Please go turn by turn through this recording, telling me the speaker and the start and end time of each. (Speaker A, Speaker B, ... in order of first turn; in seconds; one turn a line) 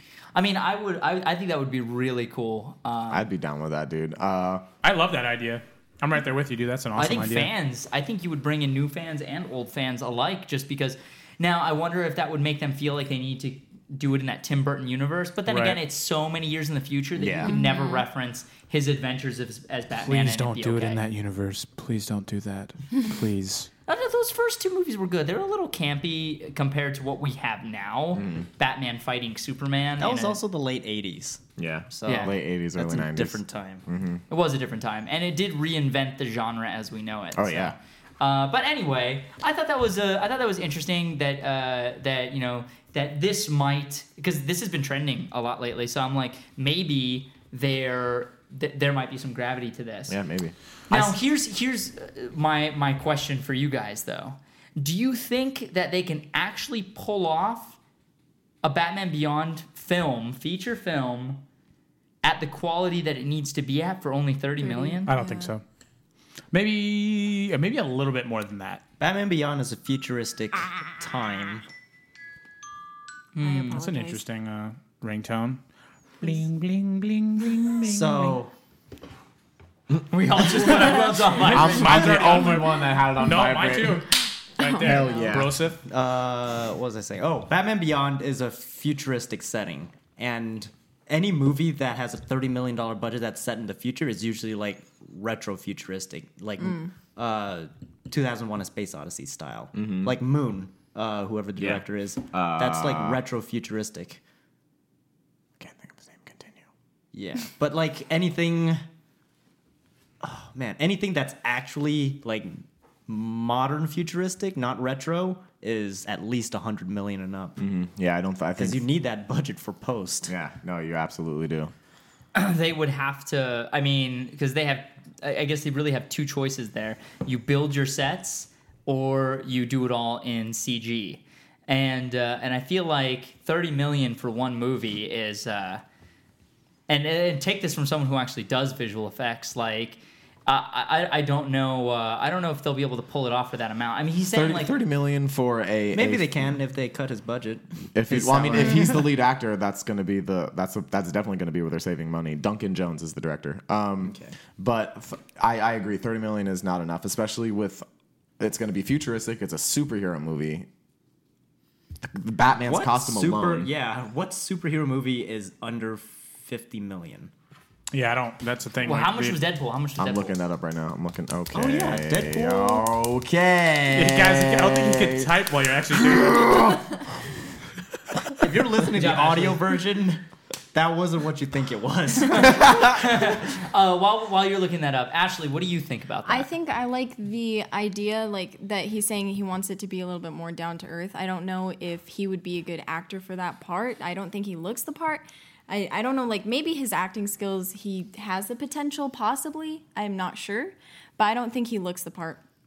Speaker A: 0.3-3.3
Speaker B: 3.1-4.6
Speaker C: 4.8-7.5
Speaker A: 7.0-21.0
Speaker C: 15.5-15.8
Speaker B: 17.2-17.5
Speaker D: 17.4-18.1
Speaker C: 20.0-23.7
Speaker A: 23.9-30.4
Speaker B: 28.1-28.4
Speaker E: 30.0-33.9
Speaker B: 31.6-34.2
Speaker A: 32.0-32.4
Speaker A: 34.3-50.2
Speaker B: 37.4-37.8
Speaker B: 50.1-50.5
Speaker A: 50.9-57.8
Speaker A: 58.6-61.4
Speaker A: 62.2-65.2
Speaker D: 64.6-65.5
Speaker C: 65.1-65.6
Speaker C: 66.5-68.8
Speaker E: 69.0-71.6
Speaker A: 73.3-73.8
Speaker D: 73.4-74.2
Speaker C: 73.7-75.6
Speaker C: 76.2-78.4
Speaker E: 77.8-78.5
Speaker A: 80.1-82.2
Speaker E: 80.2-82.3
Speaker C: 81.4-85.8
Speaker B: 81.5-84.0
Speaker D: 84.8-85.1
Speaker B: 84.8-85.5
Speaker E: 85.8-104.2
Speaker D: 96.6-96.9
Speaker B: 99.7-100.2
Speaker B: 101.6-103.2
Speaker B: 105.6-106.7
Speaker E: 107.1-108.8
Speaker E: 110.2-117.6
Speaker B: 117.6-118.8
Speaker E: 118.6-120.3
Speaker B: 120.3-121.7
Speaker A: 122.3-135.8
Speaker A: 136.9-144.8
Speaker B: 144.3-146.5
Speaker E: 145.9-149.1
Speaker B: 147.9-157.8
Speaker E: 154.1-154.4
Speaker B: 158.4-160.7
Speaker B: 162.0-163.7
Speaker E: 162.6-167.3
Speaker C: 167.9-169.4
Speaker A: 168.8-170.4
Speaker B: 170.0-175.3
Speaker E: 171.5-172.9
Speaker C: 173.9-176.8
Speaker B: 176.0-176.8
Speaker E: 178.4-180.2
Speaker A: 178.8-179.7
Speaker E: 180.7-182.9
Speaker A: 182.3-186.5
Speaker D: 186.2-202.4